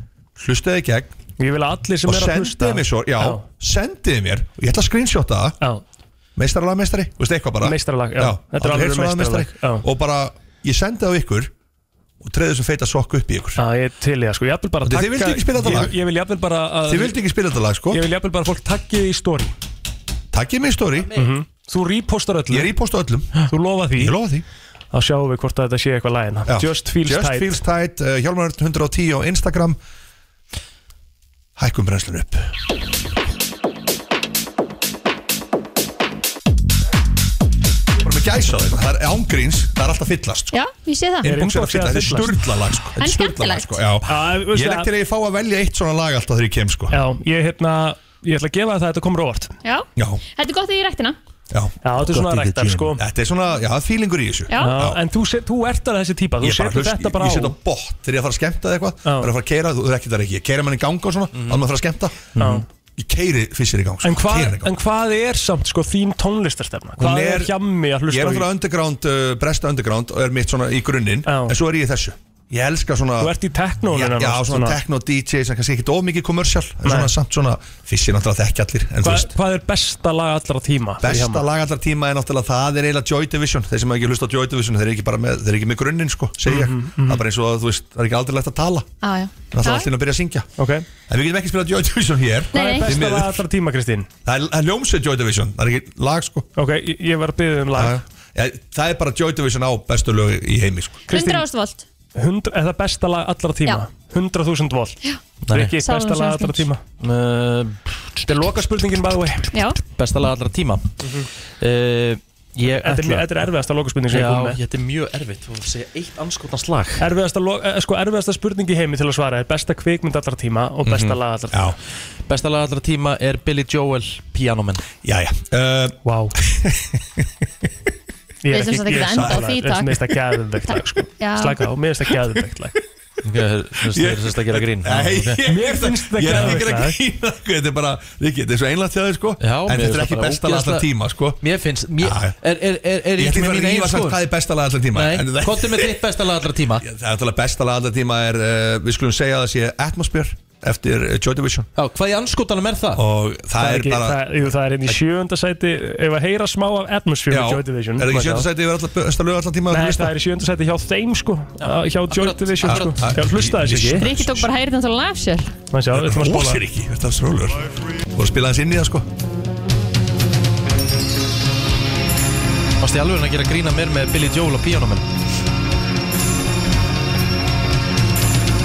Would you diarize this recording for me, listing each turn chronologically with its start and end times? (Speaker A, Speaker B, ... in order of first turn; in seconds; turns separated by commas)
Speaker A: 0.4-1.2, Speaker B: 1.4-3.4, Speaker A: 2.0-5.6, Speaker A: 6.4-11.5, Speaker B: 7.6-9.9, Speaker A: 12.2-13.6, Speaker B: 13.6-17.3, Speaker A: 14.8-16.0, Speaker A: 16.8-18.0, Speaker B: 17.9-19.5, Speaker A: 20.3-21.1, Speaker C: 21.0-21.3, Speaker B: 21.1-22.7, Speaker A: 22.5-24.4, Speaker B: 23.5-24.2, Speaker B: 24.9-27.6, Speaker A: 26.5-29.8, Speaker A: 31.6-32.5, Speaker A: 38.0-40.6, Speaker D: 40.5-41.4, Speaker A: 41.2-47.0, Speaker B: 41.3-42.4, Speaker D: 43.0-43.8, Speaker B: 44.1-44.9, Speaker B: 46.9-49.5, Speaker D: 49.6-51.2, Speaker A: 50.0-50.2, Speaker B: 51.8-53.0, Speaker C: 52.0-53.0, Speaker A: 53.0-55.0, Speaker D: 54.5-54.7, Speaker B: 54.6-57.6, Speaker A: 56.4-62.3, Speaker B: 59.0-59.3, Speaker C: 61.3-61.6, Speaker C: 62.4-62.6, Speaker B: 62.4-62.6, Speaker A: 63.0-64.7, Speaker B: 64.0-68.5, Speaker A: 67.0-67.5, Speaker A: 68.1-79.3, Speaker B: 71.3-71.6, Speaker B: 73.2-74.8, Speaker B: 76.8-77.1, Speaker B: 79.0-81.5, Speaker A: 81.0-88.9, Speaker B: 86.5-87.2, Speaker D: 89.0-89.9, Speaker A: 89.5-90.5, Speaker B: 90.6-90.9, Speaker A: 91.1-93.4, Speaker D: 92.5-92.9, Speaker B: 92.5-94.1, Speaker A: 94.2-96.5, Speaker B: 96.6-98.0, Speaker A: 97.7-101.0, Speaker B: 101.1-101.5, Speaker D: 101.1-101.8, Speaker B: 102.2-105.0, Speaker C: 105.5-105.7, Speaker B: 105.5-106.8, Speaker D: 105.8-106.7, Speaker C: 107.0-107.8, Speaker B: 108.2-109.5, Speaker D: 109.5-109.8, Speaker C: 110.0-110.9, Speaker B: 111.0-111.3, Speaker C: 111.6-113.4, Speaker B: 112.7-114.6, Speaker C: 114.1-117.0, Speaker B: 117.0-121.8, Speaker A: 120.8-121.8, Speaker C: 122.3-124.9, Speaker A: 125.0-127.2, Speaker B: 126.0-126.3, Speaker B: 128.4-132.7, Speaker D: 128.5-130.0, Speaker A: 129.1-129.4, Speaker D: 130.7-131.6, Speaker C: 133.2-135.4, Speaker A: 133.9-141.4, Speaker B: 135.5-137.0, Speaker C: 136.3-136.7, Speaker C: 139.4-140.9, Speaker C: 141.4-144.2, Speaker A: 142.0-142.3, Speaker A: 143.2-146.0, Speaker C: 144.9-146.8, Speaker A: 146.8-151.7, Speaker C: 151.8-153.0, Speaker A: 152.9-154.2, Speaker B: 153.6-158.5, Speaker A: 157.3-160.1, Speaker B: 159.7-164.1, Speaker C: 161.6-163.1, Speaker A: 162.6-164.5, Speaker D: 164.0-165.5, Speaker B: 165.7-166.6, Speaker A: 165.9-169.1, Speaker C: 172.8-175.1